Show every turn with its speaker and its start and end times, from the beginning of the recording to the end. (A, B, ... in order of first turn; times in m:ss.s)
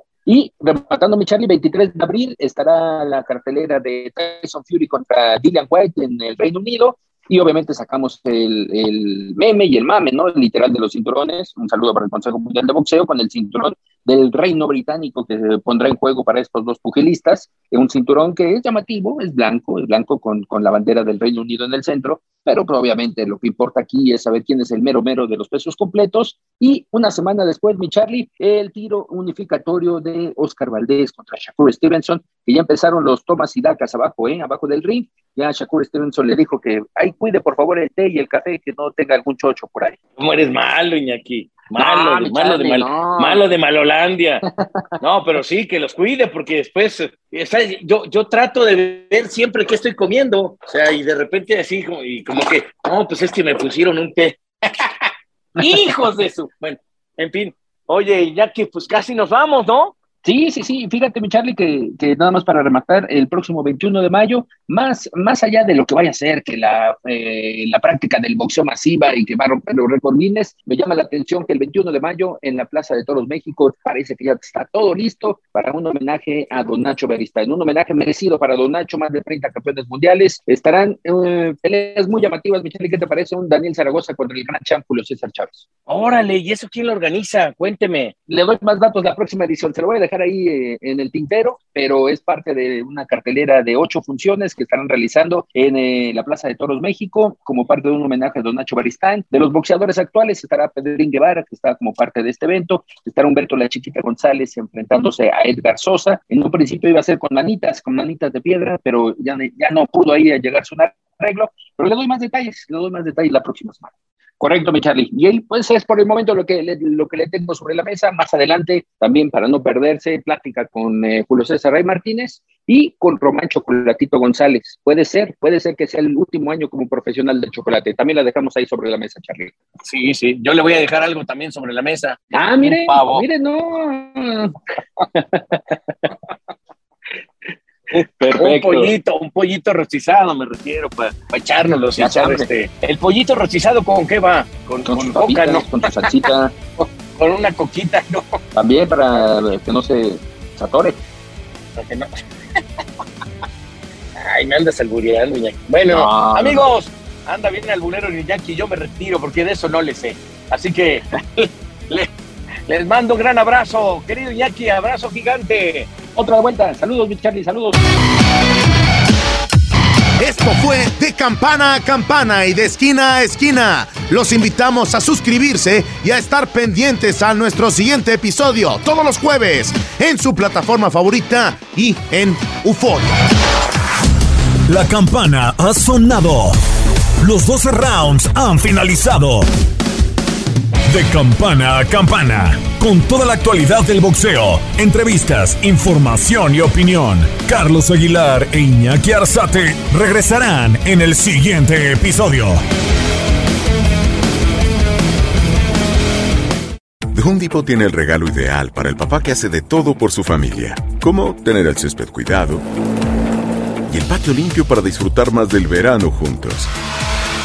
0:00.3-0:40.0 A
0:40.2-0:44.4 B
0:41.8-0:43.5 A
0:44.5-0:44.8 A
0:45.0-0:59.9 B
1:00.2-1:25.6 A
1:25.9-1:28.1 B
1:28.3-2:09.5 A
2:09.8-2:13.2 B
2:12.3-2:14.5 A
2:17.9-2:18.9 A
2:18.4-2:26.3 B
2:22.0-2:22.5 A
2:24.9-2:26.6 A
2:27.1-2:28.4 B
2:28.6-2:31.0 A
2:31.8-2:32.2 B
2:34.2-2:42.1 B
2:35.9-2:36.6 A
2:42.7-2:45.9 B
2:46.2-2:47.8 A
2:50.2-3:03.1 C
3:04.7-3:06.6 D
3:07.2-3:09.5 D
3:10.9-3:22.6 D
3:27.1-3:32.7 E
3:33.9-3:36.7 E